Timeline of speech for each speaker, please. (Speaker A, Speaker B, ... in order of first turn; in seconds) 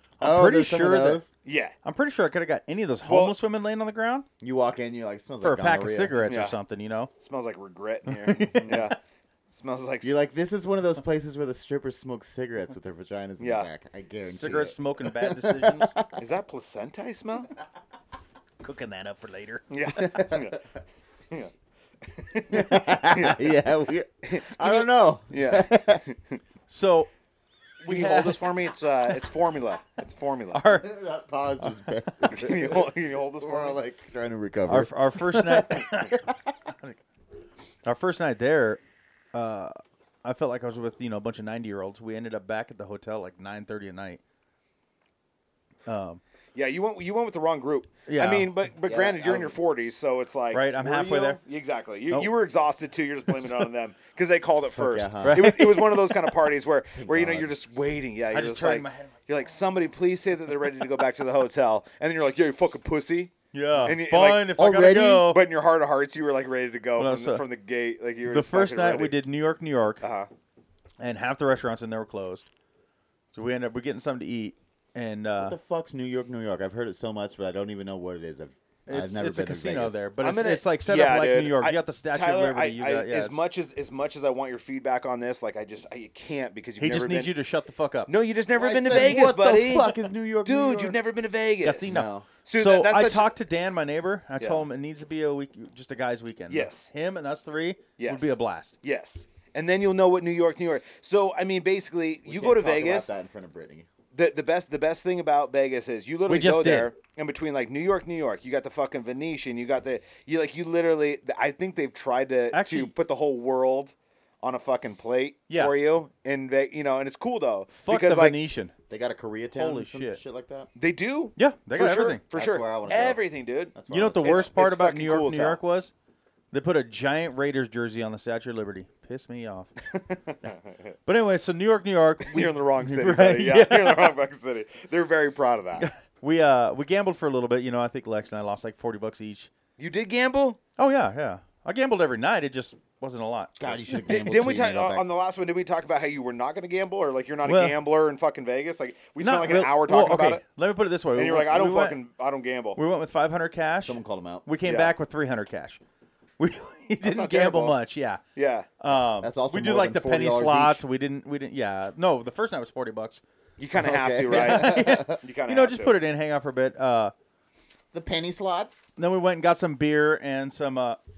Speaker A: 0.2-1.2, 1.8-4.2, 5.4-7.1, 8.1-8.9, 14.2-15.9, 18.6-20.2, 26.7-27.1, 27.8-28.5, 30.5-30.9, 31.6-31.9, 34.7-36.2, 37.8-38.8, 39.3-44.2, 45.9-46.2, 48.1-48.5, 50.5-51.4, 55.2-56.1, 58.3-59.1, 63.5-65.5, 67.0-67.4, 68.3-70.0, 71.0-72.5, 73.3-75.6, 78.9-83.4, 86.8-88.1, 88.9-89.4, 91.6-98.7, 106.3-106.9, 112.5-112.9, 117.8-118.7, 119.5-120.2, 121.4-122.2, 123.9-125.9, 126.5-129.7, 131.1-134.1, 135.8-139.5, 140.8-143.6, 147.4-147.8, 149.2-152.0, 152.8-155.8, 156.4-158.2, 158.8-163.2, 164.3-167.1, 169.0-171.0
Speaker B: 0.2-1.3, 4.4-6.1, 8.5-8.9, 10.0-16.1, 20.0-20.5, 22.5-26.0, 30.7-36.5, 48.8-49.6, 54.7-55.6, 56.9-57.5, 64.6-65.3, 75.4-80.0, 88.5-91.0, 91.8-92.3, 102.2-103.9, 118.9-120.7, 122.3-124.5, 143.6-145.1, 153.8-154.5, 159.2-160.8, 163.7-165.2, 167.9-168.8
Speaker C: 1.4-1.7, 3.0-3.4, 6.2-6.6, 7.2-9.0, 9.5-10.1, 13.4-13.7, 16.2-17.5, 19.7-20.6, 22.1-23.5, 24.3-24.7, 25.3-26.4, 27.8-30.6, 32.3-33.8, 46.5-64.6, 65.2-69.2, 70.0-70.3, 80.2-87.3, 88.1-91.9, 92.4-93.3, 94.4-94.6, 96.5-96.9, 98.0-103.1, 104.1-118.4, 120.8-125.6, 130.1-130.9, 132.3-135.9, 139.8-140.6, 143.6-150.4, 151.1-152.8, 154.6-154.9, 157.0-157.8, 158.3-158.7, 163.6-166.0